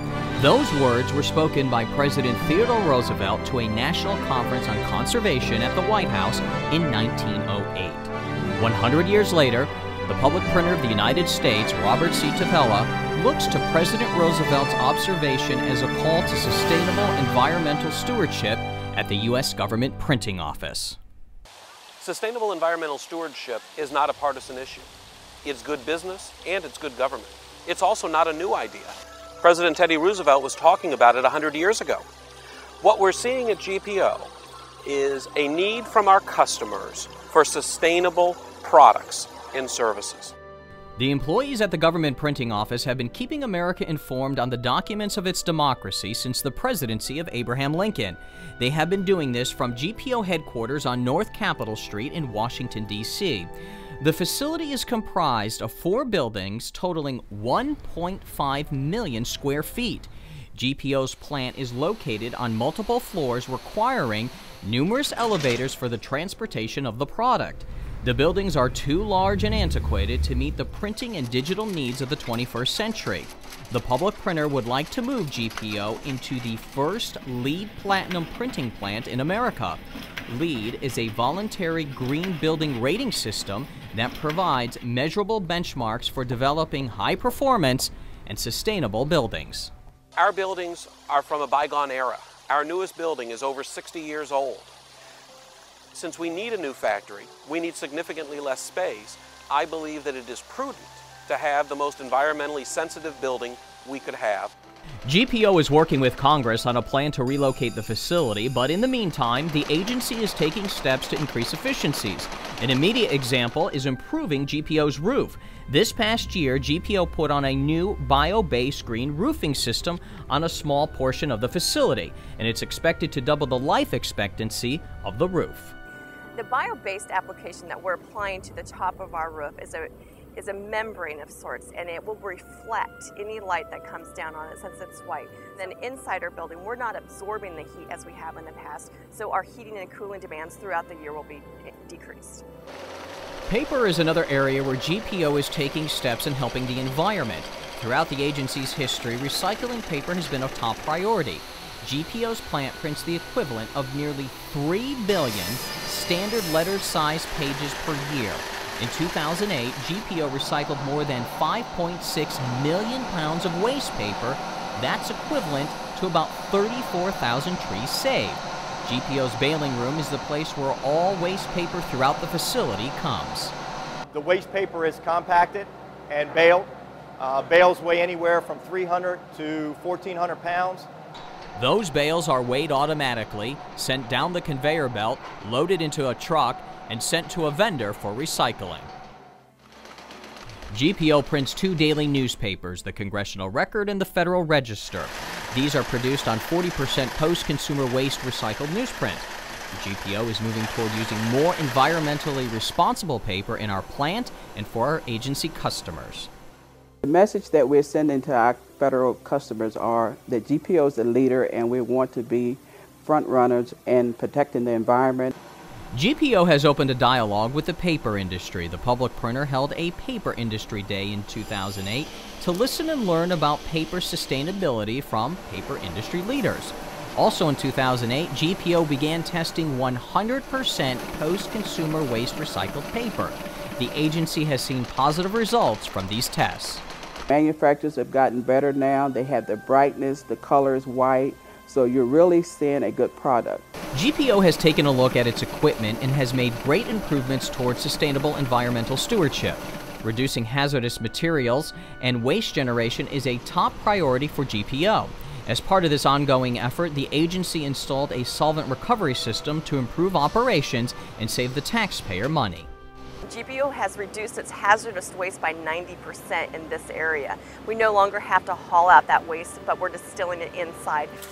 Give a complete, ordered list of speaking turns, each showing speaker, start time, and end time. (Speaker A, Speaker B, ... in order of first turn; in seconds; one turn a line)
Speaker A: 0.4-21.0
Speaker B: 22.0-24.9
Speaker B: 25.4-32.0
Speaker B: 32.8-34.3
Speaker B: 34.9-40.4
Speaker A: 41.0-89.7
Speaker B: 90.2-94.8
Speaker B: 95.9-104.5
Speaker A: 105.0-125.8
Speaker C: 126.3-142.4
Speaker A: 143.5-173.5
Speaker D: 174.2-176.7
Speaker D: 177.3-180.8
Speaker A: 181.6-188.9
Speaker A: 190.7-206.3
Speaker E: 207.0-215.3
Speaker A: 215.9-236.8
Speaker E: 237.3-243.8
Speaker A: 243.9-262.7
Speaker C: 263.2-271.2